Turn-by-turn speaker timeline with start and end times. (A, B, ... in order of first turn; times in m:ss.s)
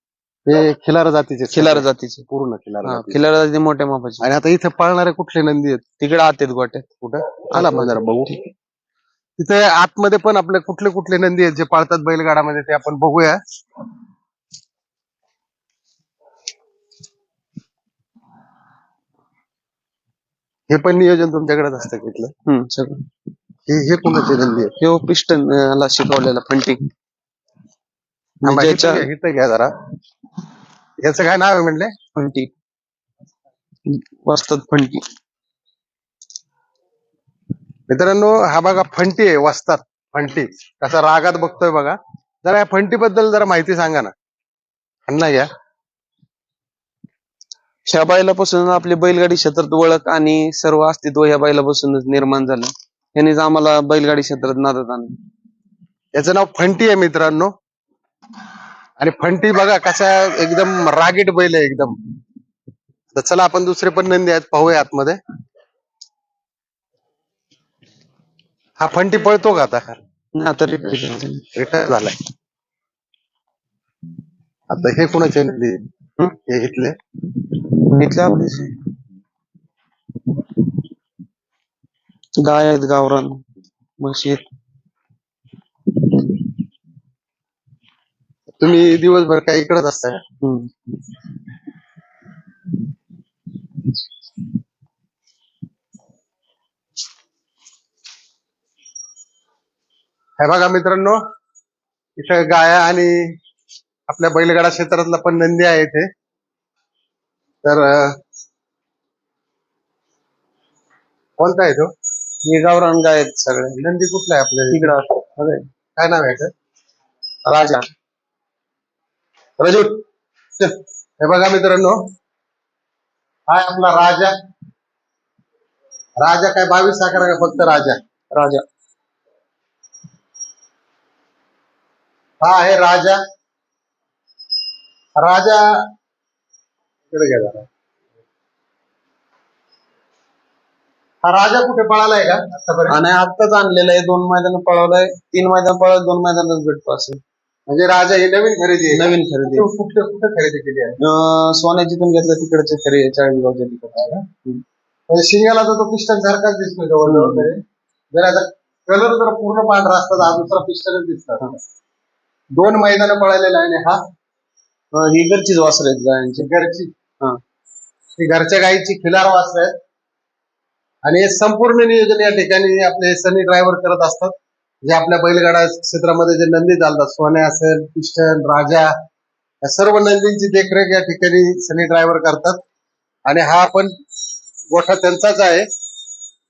0:00.5-0:03.2 A
0:01.5-0:02.2 B
0:02.8-0:04.2 B
0:04.2-0:05.8 A
0:06.0-0:06.9 B
0:07.0-0:08.3 A
0:07.5-0:08.4 B
0:09.4-0:13.4 A
0:20.7-0:22.3 A
0:22.5-0:23.0 B
0:23.7-0:24.7 A
0:24.8-0:26.8 B
0:28.4-0:29.1 B
0:28.4-0:29.7 A
0:31.0-0:31.9 A
0:32.2-0:32.5 B
0:33.9-0:35.0 B
0:37.9-0:44.1 A
0:45.1-0:45.5 A
0:47.9-0:55.1 B
0:56.1-0:57.5 A
0:59.0-1:02.0 A
1:03.1-1:05.2 A
1:08.8-1:10.0 A
1:10.3-1:11.5 B
1:11.5-1:12.1 A
1:14.7-1:17.0 A
1:17.9-1:18.8 B
1:22.4-1:23.4 B
1:24.0-1:24.4 B
1:28.6-1:30.2 A
1:30.4-1:30.7 B
1:40.4-1:41.2 A
1:42.2-1:43.2 A
1:44.1-1:46.1 A
1:47.6-1:48.2 A
1:51.4-1:51.9 A
1:52.4-1:53.8 B
1:53.7-1:54.9 A
1:54.7-1:55.6 B
1:56.0-1:56.5 A
1:57.5-1:57.8 B
1:57.5-1:57.8 A
1:59.6-2:00.0 A
2:00.6-2:02.0 A
2:03.5-2:04.3 A
2:06.2-2:08.0 A
2:08.3-2:08.6 B
2:12.4-2:13.2 A
2:15.2-2:15.8 A
2:17.1-2:17.6 A
2:21.2-2:23.0 A
2:22.9-2:27.2 B
2:27.7-2:31.0 A
2:28.9-2:29.6 B
2:31.0-2:34.6 B
2:35.1-2:37.6 A
2:37.0-2:37.5 B
2:38.1-2:41.5 A
2:42.5-2:44.0 A
2:44.9-2:46.5 B
2:46.4-2:46.9 A
2:48.2-2:49.7 A
2:51.0-2:54.3 A
2:54.8-2:58.9 A
2:59.6-3:02.6 A
3:03.2-3:03.9 A
3:04.7-3:05.6 A